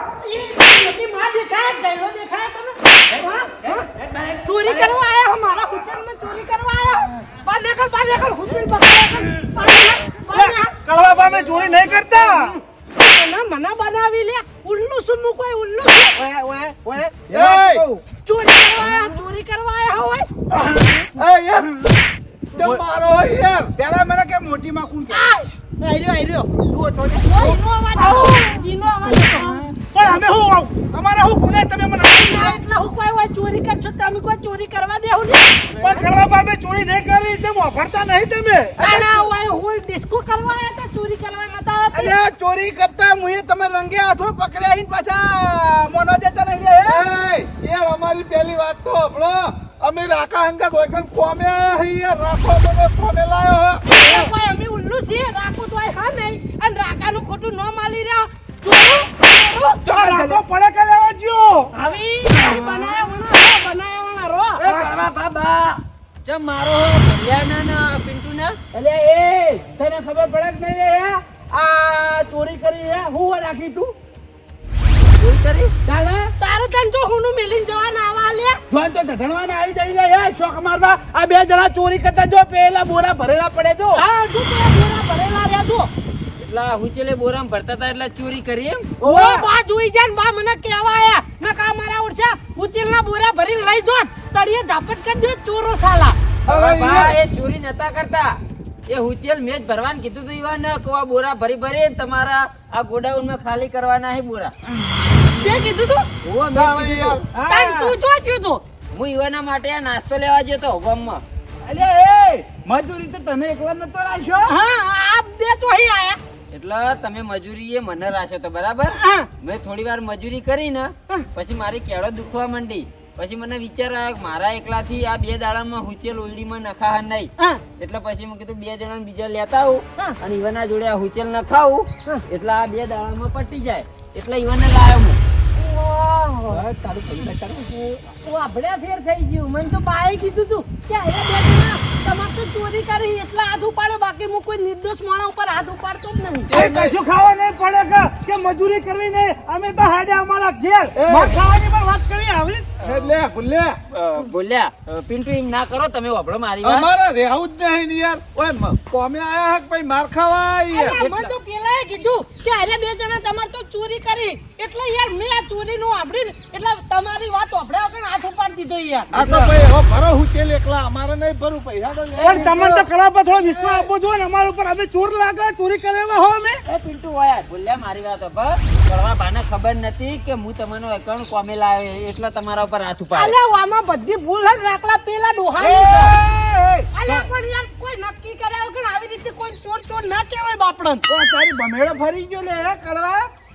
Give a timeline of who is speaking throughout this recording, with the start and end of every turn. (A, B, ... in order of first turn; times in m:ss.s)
0:00.2-0:03.9 A
0:04.0-0:04.4 B
0:04.4-0:10.7 A
0:10.3-0:12.5 C
0:12.1-0:16.2 A
0:16.2-0:17.8 D
0:17.3-0:20.3 A
0:17.3-0:17.8 E
0:18.8-0:19.2 D
0:20.5-0:22.0 E
0:22.5-0:23.7 E
0:22.5-0:22.9 D
0:23.7-0:25.4 D
0:25.1-0:26.5 A
0:26.7-0:28.5 D
0:27.2-0:29.6 A
0:29.1-0:29.8 D
0:29.8-0:32.6 C
0:32.1-0:36.0 A
0:35.8-0:38.8 C
0:38.8-0:39.3 D
0:38.8-0:42.1 A
0:41.9-0:47.0 D
0:46.9-0:53.9 E
0:53.8-0:59.8 A
0:54.0-0:54.3 C
0:59.8-1:00.4 D
0:59.9-1:01.7 C
1:01.7-1:04.6 A
1:02.3-1:03.1 D
1:04.6-1:08.6 B
1:08.7-1:13.9 D
1:15.2-1:15.7 B
1:15.9-1:16.2 D
1:16.2-1:18.6 A
1:18.7-1:24.0 D
1:23.9-1:25.9 A
1:26.4-1:28.9 B
1:29.0-1:29.5 D
1:29.0-1:36.2 A
1:36.5-1:37.2 E
1:36.5-1:38.4 B
1:38.9-1:44.5 B
1:45.0-1:45.7 E
1:45.4-1:46.0 A
1:46.2-1:47.2 B
1:46.5-1:47.2 E
1:47.3-1:48.0 D
1:47.5-1:48.6 A
1:48.9-1:51.2 B
1:51.6-1:54.5 D
1:54.4-1:56.2 A
1:56.5-2:15.2 B
1:58.9-1:59.3 A
2:15.6-2:16.6 A
2:16.5-2:18.0 D
2:18.1-2:26.5 A
2:26.5-2:27.0 E
2:26.5-2:32.8 C
2:31.0-2:31.4 E
2:32.8-2:33.8 E
2:33.9-2:36.9 B
2:36.6-2:41.0 E
2:40.7-2:49.4 A
2:41.0-2:41.3 B
2:49.1-2:52.8 E
2:49.2-2:49.5 D
2:52.2-2:56.6 C
2:56.7-3:03.4 B
3:03.1-3:06.1 A
3:05.6-3:06.9 D
3:06.9-3:11.0 A
3:11.1-3:13.3 D